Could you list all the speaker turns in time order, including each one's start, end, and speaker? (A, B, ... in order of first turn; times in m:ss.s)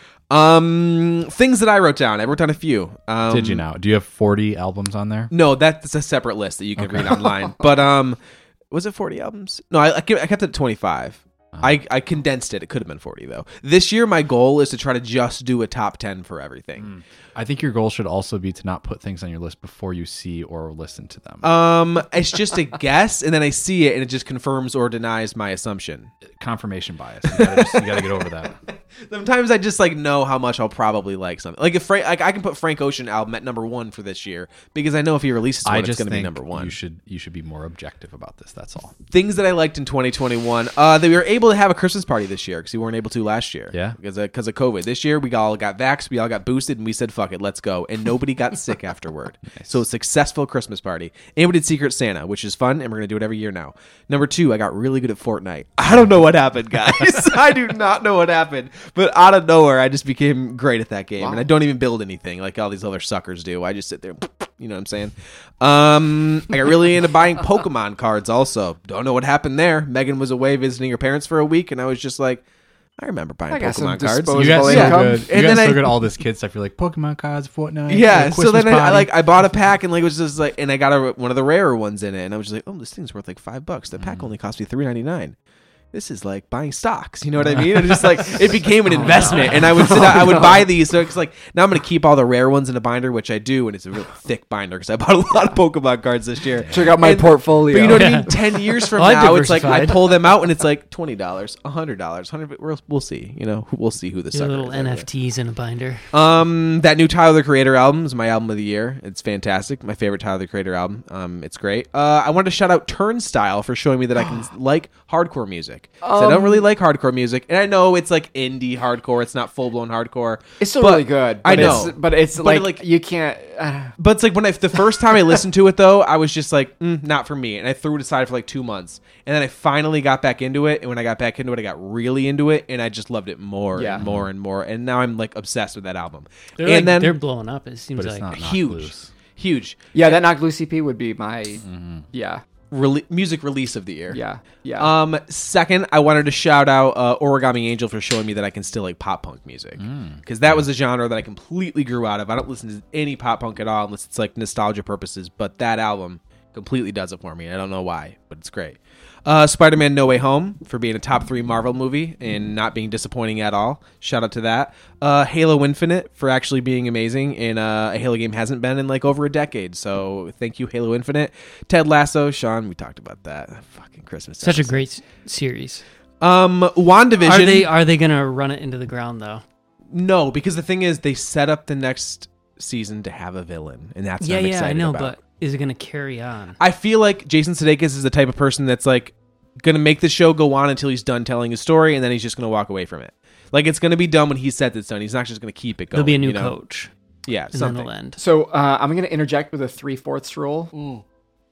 0:00.3-0:03.6 A
0:03.3-0:05.3 B
0:05.3-0:08.2 A
0:06.8-0:07.2 B
0:08.7-0:16.9 A
0:16.8-0:21.5 B
0:21.4-0:26.1 A
0:26.4-0:28.6 B
0:27.3-0:36.8 A
0:35.6-0:38.9 B
0:39.1-1:12.4 A
0:43.7-0:44.0 B
1:13.0-1:16.0 A
1:13.5-1:15.3 C
1:14.3-1:19.1 B
1:17.9-1:25.4 A
1:24.0-1:24.3 B
1:25.9-1:45.1 A
1:28.9-1:30.7 C
1:36.7-1:38.4 C
1:37.9-1:40.3 D
1:44.3-1:46.0 D
1:46.1-2:02.8 A
1:56.0-1:56.7 C
2:00.6-2:03.9 C
2:01.5-2:01.9 B
2:04.0-2:17.2 A
2:13.7-2:14.0 C
2:14.0-2:14.3 B
2:16.6-2:18.4 D
2:18.0-2:19.1 B
2:18.3-2:20.2 A
2:19.9-2:22.4 C
2:21.6-2:22.0 B
2:22.7-2:24.2 A
2:24.1-2:24.9 C
2:24.8-2:54.8 A
2:29.8-2:30.2 B
2:54.4-2:55.8 D
2:56.2-2:57.7 A
2:57.2-2:59.4 D
2:59.9-3:05.2 A
3:04.2-3:06.6 D
3:06.6-3:16.6 A
3:15.9-3:16.9 D
3:17.2-3:17.9 A
3:17.5-3:18.2 D
3:18.2-3:21.0 C